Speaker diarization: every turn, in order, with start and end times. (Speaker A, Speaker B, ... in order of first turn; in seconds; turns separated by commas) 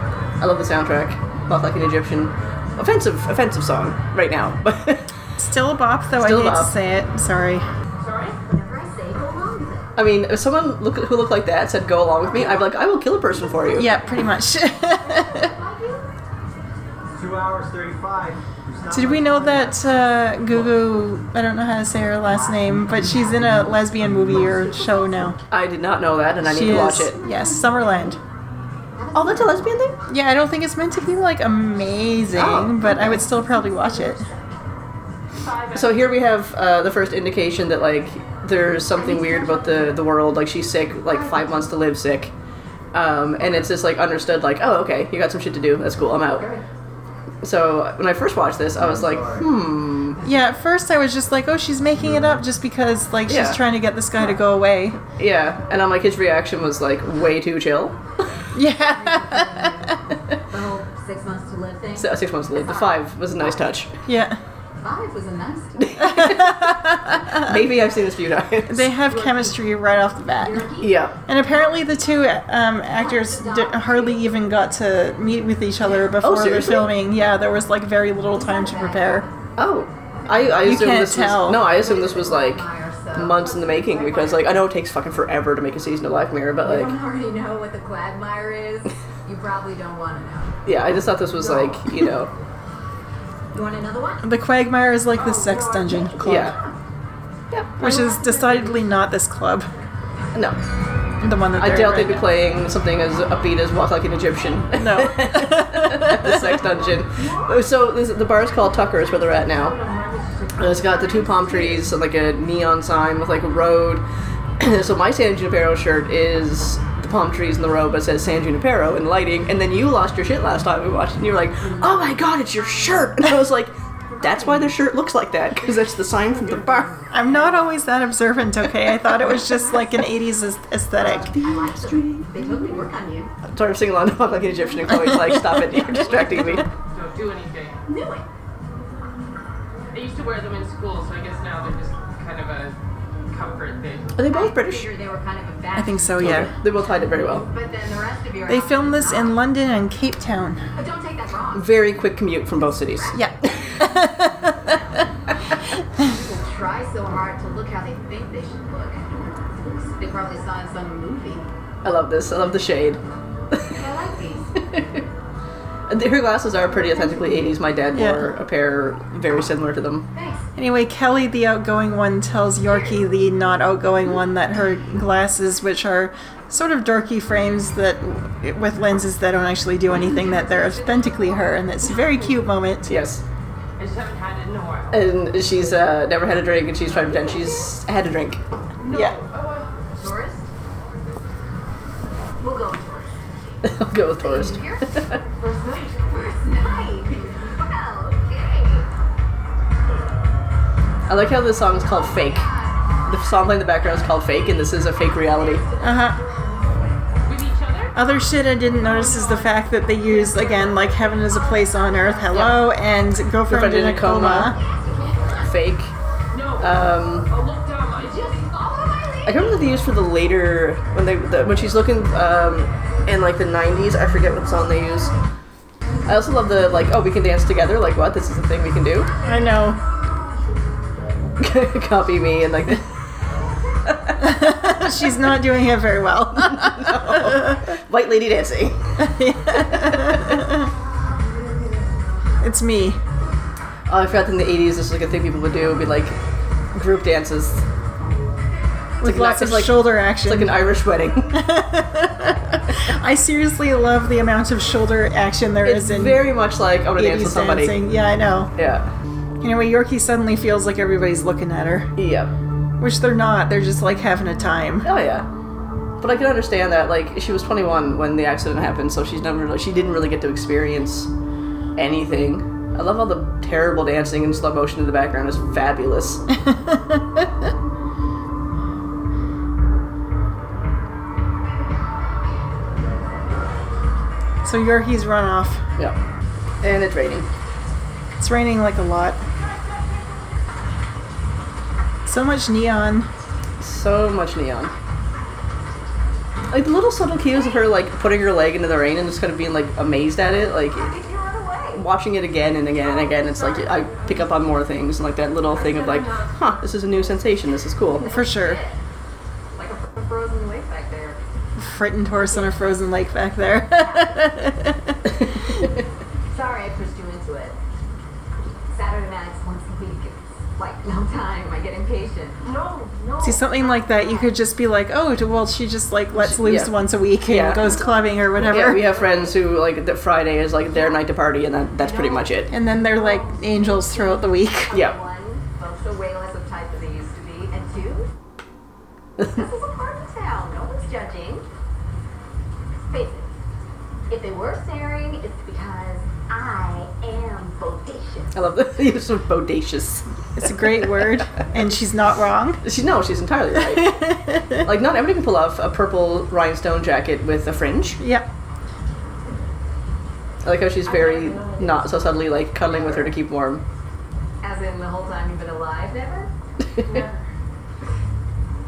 Speaker A: 0.4-5.1, Speaker B: 5.4-7.7, Speaker A: 6.2-6.7, Speaker C: 8.0-8.4, Speaker D: 8.5-9.9, Speaker A: 10.0-14.0, Speaker D: 12.3-12.7, Speaker B: 13.7-15.5, Speaker D: 13.8-14.3, Speaker C: 13.8-14.2, Speaker D: 14.9-16.1, Speaker E: 17.1-20.9, Speaker B: 18.9-25.4, Speaker D: 24.6-25.1, Speaker A: 25.5-27.2, Speaker B: 26.4-28.2, Speaker D: 26.8-28.2, Speaker D: 28.9-30.0, Speaker A: 29.1-29.9, Speaker B: 30.1-34.3, Speaker A: 32.3-33.2, Speaker D: 33.0-34.6, Speaker C: 35.4-36.1, Speaker A: 35.7-42.3, Speaker D: 38.9-40.0, Speaker D: 41.1-41.6, Speaker A: 42.9-46.5, Speaker D: 46.3-46.6, Speaker A: 47.4-50.2, Speaker E: 48.8-49.5, Speaker B: 50.2-55.0, Speaker A: 53.3-53.6, Speaker A: 55.2-58.0, Speaker B: 58.5-60.0, Speaker D: 58.8-63.7, Speaker A: 62.0-63.9, Speaker B: 64.1-64.4, Speaker D: 64.8-66.2, Speaker A: 65.8-68.9, Speaker B: 66.0-67.7, Speaker B: 68.7-70.7, Speaker D: 69.1-69.7, Speaker D: 70.4-72.1, Speaker A: 70.8-71.2, Speaker B: 71.3-79.3, Speaker D: 72.9-74.8, Speaker A: 76.2-76.9, Speaker D: 78.3-79.4, Speaker A: 79.6-86.9, Speaker D: 80.3-80.5, Speaker B: 80.6-81.6, Speaker D: 81.6-83.5, Speaker C: 83.4-84.5, Speaker D: 86.6-90.6, Speaker A: 90.7-92.3, Speaker D: 93.5-94.3, Speaker B: 94.2-96.5, Speaker C: 95.1-96.1, Speaker D: 96.1-96.8, Speaker A: 96.2-96.6, Speaker B: 97.8-99.7, Speaker D: 97.8-98.9, Speaker B: 101.2-102.3, Speaker A: 101.6-109.8, Speaker B: 104.7-106.6, Speaker C: 107.1-107.6, Speaker C: 109.5-111.9, Speaker A: 110.6-114.0, Speaker A: 114.6-127.0, Speaker C: 121.6-122.2, Speaker C: 124.1-124.8, Speaker C: 125.7-127.8, Speaker B: 127.1-131.4, Speaker D: 131.0-133.3, Speaker A: 131.4-132.2, Speaker A: 133.4-136.7, Speaker C: 136.1-137.8, Speaker D: 137.9-138.2, Speaker C: 139.9-142.8, Speaker C: 143.3-144.2, Speaker A: 144.2-144.9, Speaker D: 144.2-149.3, Speaker B: 145.7-146.5, Speaker A: 146.2-147.5, Speaker B: 148.5-150.6, Speaker D: 150.8-151.7, Speaker A: 151.5-153.7, Speaker D: 152.7-153.4, Speaker B: 153.1-154.8, Speaker D: 154.6-155.1, Speaker D: 156.0-161.5, Speaker A: 161.8-163.0, Speaker A: 163.5-163.8, Speaker D: 163.7-164.5, Speaker A: 164.6-165.0, Speaker A: 165.9-170.1, Speaker D: 166.7-167.6, Speaker B: 167.9-168.2, Speaker D: 170.1-170.5, Speaker B: 170.6-182.9, Speaker C: 180.2-182.4, Speaker A: 182.9-183.2, Speaker C: 183.8-185.7, Speaker A: 184.9-188.4, Speaker D: 187.0-187.7, Speaker C: 188.8-189.9, Speaker B: 188.9-189.2, Speaker D: 189.9-190.5, Speaker D: 192.4-193.6, Speaker A: 193.6-195.2, Speaker D: 194.2-195.3, Speaker C: 195.4-196.1, Speaker D: 196.0-198.9, Speaker A: 201.1-202.5, Speaker D: 201.8-202.8, Speaker A: 203.1-205.6, Speaker D: 205.4-206.0, Speaker B: 205.8-206.2, Speaker C: 207.2-208.1, Speaker B: 207.9-214.6, Speaker C: 208.8-210.6, Speaker D: 210.1-212.7, Speaker A: 213.5-214.6, Speaker D: 214.6-215.5, Speaker A: 215.3-215.9, Speaker C: 216.3-218.4, Speaker A: 216.6-217.3, Speaker D: 218.2-219.6, Speaker A: 219.2-225.1, Speaker A: 226.1-229.1, Speaker B: 229.2-229.8, Speaker A: 231.4-232.9, Speaker A: 233.9-234.2, Speaker B: 234.2-237.8, Speaker A: 236.4-238.9, Speaker B: 239.0-240.7, Speaker A: 239.6-240.2, Speaker B: 242.4-243.0, Speaker A: 243.9-246.2, Speaker A: 246.7-247.6, Speaker B: 249.0-250.6, Speaker A: 249.0-251.4, Speaker B: 251.3-256.3, Speaker A: 255.6-257.8, Speaker B: 257.0-258.5, Speaker A: 258.6-258.9, Speaker B: 259.4-261.9, Speaker A: 262.0-262.3, Speaker B: 262.8-264.9, Speaker A: 264.8-265.3, Speaker A: 266.0-271.1, Speaker A: 271.8-276.2, Speaker B: 276.4-277.3, Speaker B: 284.4-285.6, Speaker A: 286.6-287.3, Speaker B: 288.2-289.2, Speaker B: 292.1-293.1, Speaker A: 293.6-294.7, Speaker A: 296.5-301.0, Speaker D: 300.7-301.9, Speaker A: 301.7-308.1, Speaker C: 302.8-304.6, Speaker C: 305.5-307.3, Speaker D: 307.9-308.8, Speaker B: 308.0-308.6, Speaker D: 309.5-311.2, Speaker B: 311.6-315.6, Speaker D: 312.2-312.7, Speaker D: 313.7-314.3, Speaker D: 316.3-317.6, Speaker D: 318.7-322.4, Speaker C: 322.4-323.5, Speaker B: 323.2-328.9, Speaker D: 323.6-324.3, Speaker A: 326.2-326.7, Speaker A: 327.2-327.6, Speaker A: 328.4-332.5, Speaker C: 331.8-333.2, Speaker B: 332.5-334.7, Speaker D: 332.7-338.1, Speaker A: 334.7-335.0, Speaker A: 339.2-339.4, Speaker D: 339.3-341.5, Speaker D: 342.8-343.3, Speaker D: 344.1-348.4, Speaker A: 348.4-351.1, Speaker B: 350.4-352.6, Speaker A: 352.6-358.0, Speaker B: 353.6-354.7, Speaker B: 358.0-358.3, Speaker A: 360.4-363.6, Speaker C: 360.9-363.1, Speaker D: 364.4-367.2